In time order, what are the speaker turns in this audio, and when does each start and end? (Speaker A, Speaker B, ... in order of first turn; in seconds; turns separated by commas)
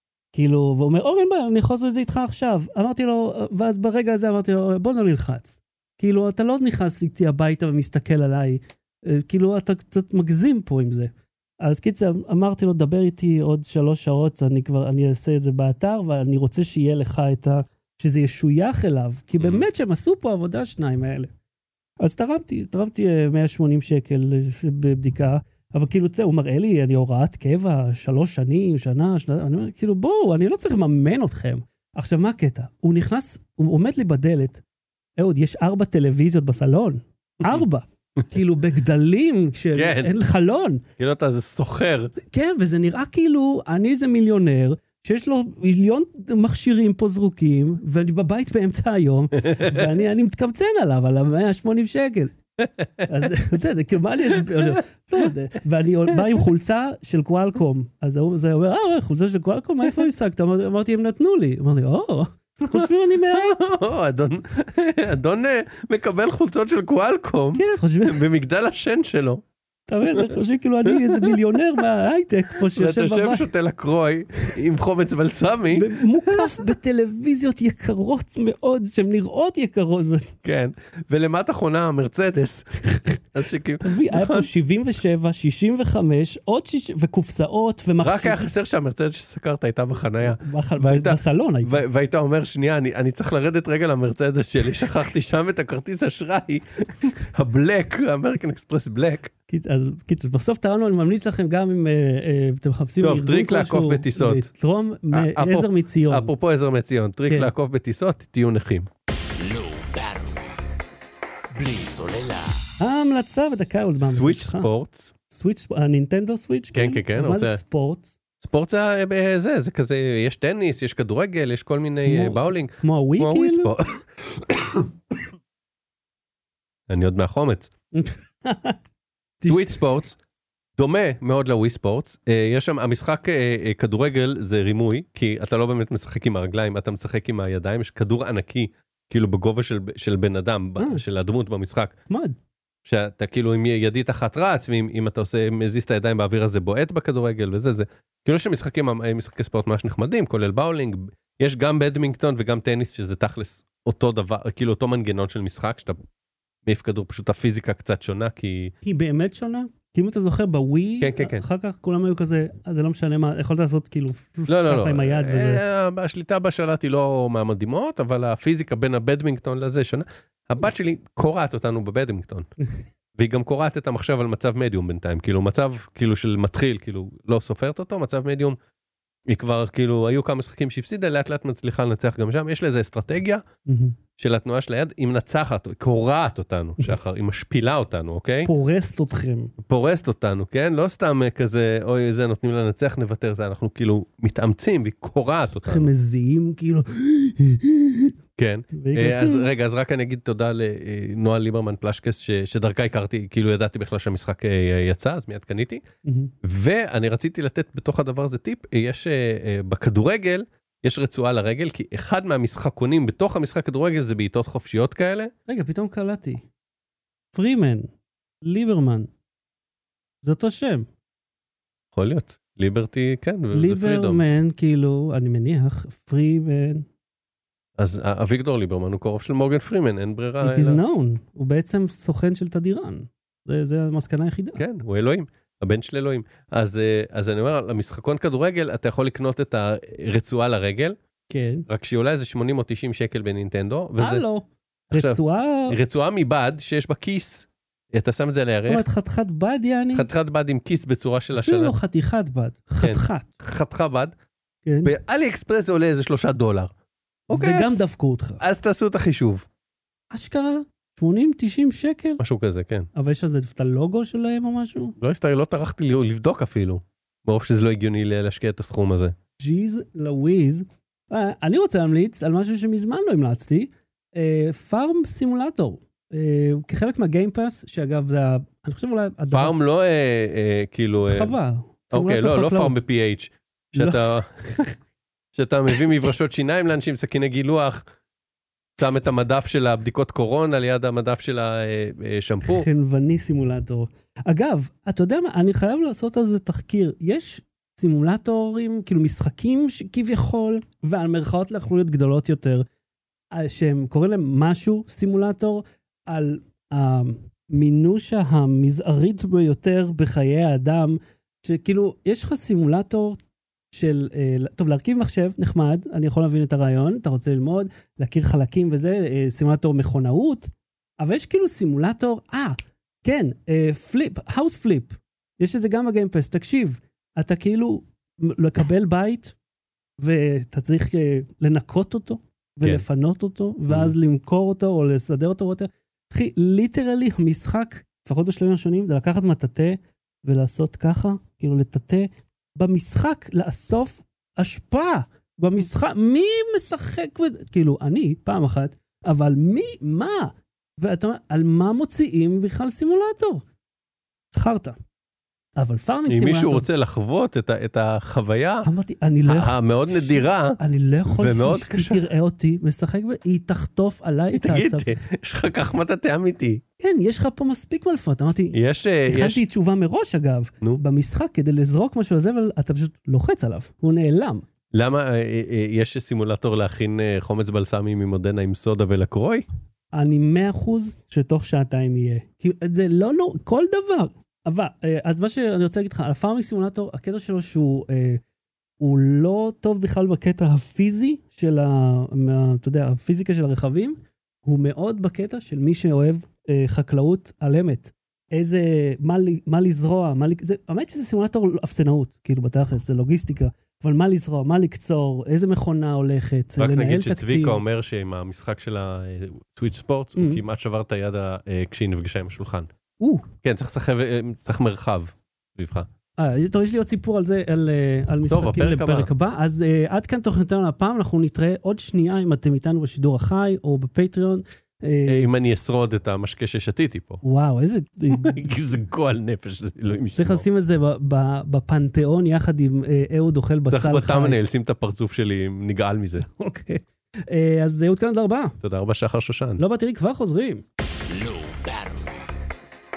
Speaker A: 0.3-21.3, Speaker B: 19.4-19.6, Speaker A: 22.0-34.6, Speaker A: 35.2-40.8, Speaker B: 39.7-40.1, Speaker B: 41.0-42.1, Speaker A: 42.2-52.4, Speaker B: 49.4-49.8, Speaker B: 52.6-53.1, Speaker A: 53.0-63.7, Speaker B: 54.4-54.8, Speaker B: 62.7-69.4, Speaker A: 67.5-68.3, Speaker A: 69.9-73.5, Speaker B: 70.9-71.5, Speaker B: 72.6-76.7, Speaker A: 75.7-80.3, Speaker B: 80.4-82.8, Speaker B: 83.3-84.5, Speaker A: 83.8-88.5, Speaker B: 88.0-99.3, Speaker A: 90.2-91.8, Speaker A: 99.5-106.3, Speaker B: 103.0-104.5, Speaker B: 105.1-108.9, Speaker A: 107.3-107.5, Speaker C: 109.3-110.6, Speaker C: 111.5-112.7, Speaker A: 112.8-114.7, Speaker B: 114.0-115.1, Speaker A: 115.3-118.2, Speaker B: 116.7-117.6, Speaker B: 118.4-124.8, Speaker A: 122.0-123.7, Speaker B: 126.9-127.7, Speaker A: 127.9-128.8, Speaker A: 129.4-129.8, Speaker B: 129.5-130.2, Speaker B: 130.8-141.9, Speaker A: 140.8-141.0, Speaker A: 142.1-142.3, Speaker B: 142.8-156.0, Speaker B: 156.7-158.7, Speaker A: 158.8-165.6, Speaker B: 161.0-161.4, Speaker B: 164.5-172.5, Speaker B: 173.2-178.6, Speaker B: 179.3-183.4, Speaker A: 183.7-184.0, Speaker B: 184.2-188.5, Speaker A: 188.4-189.5, Speaker B: 189.6-195.9, Speaker A: 195.6-198.1, Speaker B: 198.4-205.8, Speaker A: 198.7-199.5, Speaker A: 206.0-206.3, Speaker B: 206.4-215.3, Speaker A: 215.5-216.4, Speaker A: 217.3-217.9, Speaker A: 218.4-219.1, Speaker A: 220.2-220.9, Speaker B: 221.9-224.2, Speaker A: 223.5-226.9, Speaker B: 227.8-230.8, Speaker A: 230.4-234.6, Speaker B: 234.6-241.0, Speaker A: 241.3-241.7, Speaker B: 241.7-244.2, Speaker A: 244.0-245.8, Speaker B: 244.9-248.9, Speaker A: 248.7-250.1, Speaker B: 249.9-251.8, Speaker A: 251.3-253.3, Speaker B: 252.8-254.1, Speaker A: 254.7-254.9, Speaker B: 254.8-256.7, Speaker B: 257.3-257.8, Speaker A: 257.3-258.4, Speaker B: 258.4-259.5, Speaker A: 260.1-262.2, Speaker B: 262.2-262.9, Speaker A: 262.9-265.0, Speaker B: 265.0-269.2, Speaker A: 269.4-279.6, Speaker B: 279.3-281.4, Speaker A: 281.1-282.8, Speaker B: 281.9-284.6, Speaker A: 283.8-284.7, Speaker B: 285.3-287.8, Speaker B: 288.8-292.7, Speaker A: 292.5-302.7, Speaker A: 303.3-313.2, Speaker A: 313.7-329.4, Speaker A: 330.0-353.4, Speaker B: 333.7-333.9, Speaker A: 354.3-354.8, Speaker A: 355.6-356.7, Speaker B: 356.1-358.7, Speaker A: 358.6-365.0, Speaker B: 359.3-360.6, Speaker B: 361.1-362.1, Speaker B: 364.3-366.6, Speaker A: 366.8-374.4, Speaker B: 368.5-369.4, Speaker B: 374.7-379.4, Speaker A: 379.9-388.2, Speaker A: 388.8-407.6, Speaker B: 406.6-412.7, Speaker A: 410.2-410.4, Speaker A: 413.0-413.3, Speaker B: 413.4-415.9, Speaker A: 416.2-425.3, Speaker B: 418.3-419.1, Speaker B: 425.1-427.2, Speaker A: 427.2-428.5, Speaker B: 428.1-430.5, Speaker A: 430.2-434.4, Speaker B: 433.7-436.3, Speaker A: 436.2-438.6, Speaker B: 438.6-439.6, Speaker A: 439.6-440.6, Speaker C: 440.9-442.4